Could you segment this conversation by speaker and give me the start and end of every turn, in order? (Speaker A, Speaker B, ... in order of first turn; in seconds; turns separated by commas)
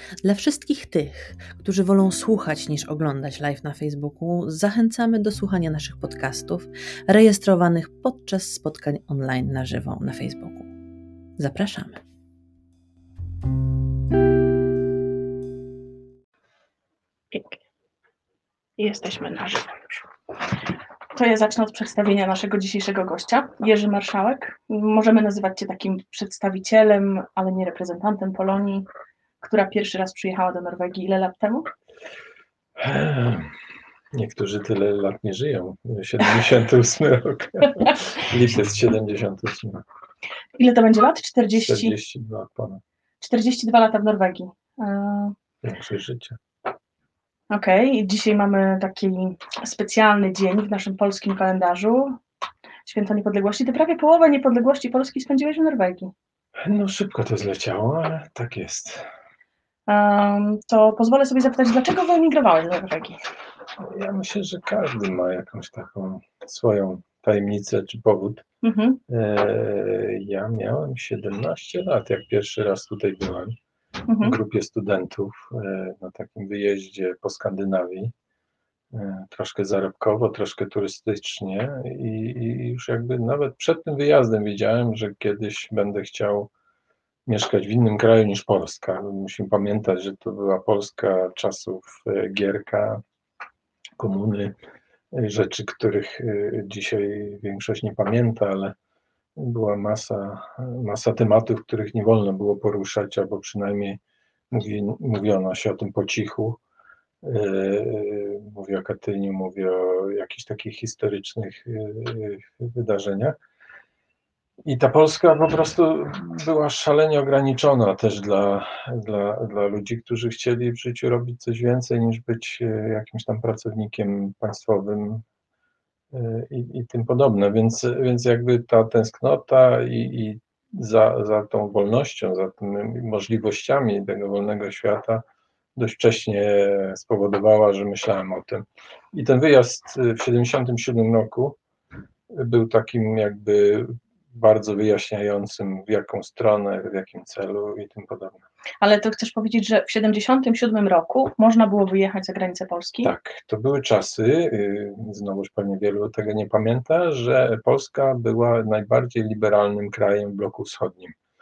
Speaker A: 0.2-10.7, Speaker A: 11.4-12.0, Speaker B: 17.3-17.6, Speaker B: 18.8-20.1, Speaker B: 21.1-28.9, Speaker B: 29.4-31.7, Speaker C: 32.8-33.5, Speaker C: 34.1-39.8, Speaker B: 40.6-41.9, Speaker C: 41.5-42.8, Speaker B: 43.2-45.3, Speaker C: 45.6-46.4, Speaker B: 47.5-52.2, Speaker B: 52.8-56.1, Speaker C: 56.6-59.1, Speaker B: 59.9-63.2, Speaker C: 63.8-68.4, Speaker B: 68.6-69.0, Speaker C: 69.1-73.5, Speaker B: 74.1-74.4, Speaker C: 74.2-78.1, Speaker C: 78.9-86.5, Speaker C: 87.2-93.0, Speaker C: 94.0-94.5, Speaker C: 95.1-98.7, Speaker C: 99.3-104.0, Speaker C: 104.5-106.6, Speaker C: 107.2-113.4, Speaker C: 114.6-125.2, Speaker C: 126.1-135.2, Speaker C: 135.8-141.6, Speaker C: 142.3-148.4, Speaker B: 148.8-153.1, Speaker C: 153.0-161.2